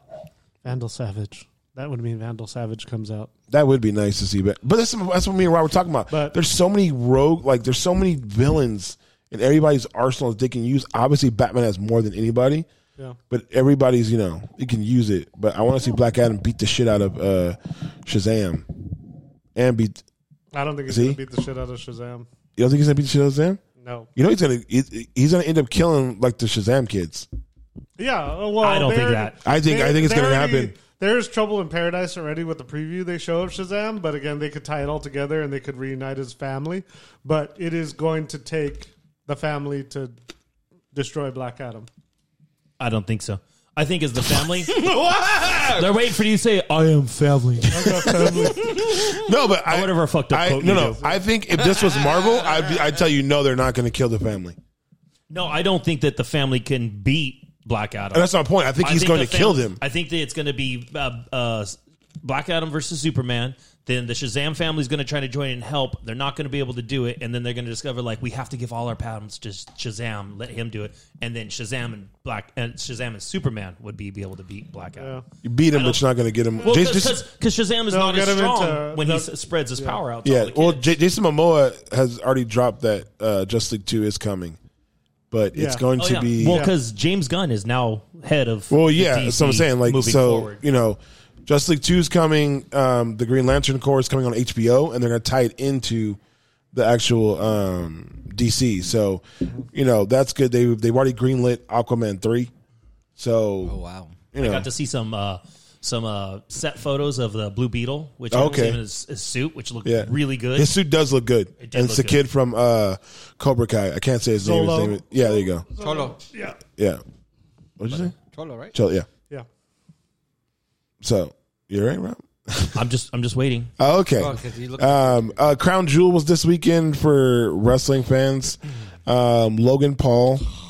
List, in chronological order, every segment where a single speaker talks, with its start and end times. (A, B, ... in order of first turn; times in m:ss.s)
0:00.6-0:03.3 A
0:03.5-0:12.7 B
0:06.1-0:06.4 A
0:13.3-0:18.6 B
0:19.6-0:20.0 B
0:20.5-0:22.3 A
0:20.9-0:21.2 B
0:22.6-0:23.6 B
0:23.8-0:24.1 A
0:24.2-0:27.3 B
0:28.0-0:40.1 A
0:28.6-0:29.4 C
0:29.4-0:30.8 B
0:40.9-0:41.9 A
0:42.8-0:48.8 C
0:44.7-0:45.7 D
0:47.7-0:48.7 A
0:48.2-0:54.6 B
0:49.6-0:51.0 C
0:51.7-0:52.9 D
0:55.3-0:58.3 C
0:58.1-0:59.8 B
0:58.8-1:15.2 C
1:15.0-1:15.2 A
1:15.4-1:17.2 B
1:15.7-1:16.0 C
1:16.6-1:20.9 C
1:17.9-1:20.0 A
1:20.2-1:24.6 B
1:25.3-1:26.6 B
1:25.5-1:25.9 A
1:26.0-1:30.6 C
1:26.4-1:26.7 A
1:28.7-1:36.2 B
1:36.7-1:42.5 B
1:43.2-1:43.8 B
1:43.6-1:44.2 D
1:44.3-1:44.7 B
1:44.4-1:50.7 C
1:48.3-1:48.8 B
1:49.8-1:55.7 B
1:51.6-1:52.2 C
1:54.4-1:56.6 A
1:55.8-1:56.2 D
1:57.8-1:58.1 B
1:58.3-1:58.8 D
1:58.7-1:59.1 B
2:01.0-2:02.8 B
2:02.7-2:03.7 C
2:03.8-2:10.4 B
2:04.2-2:05.4 D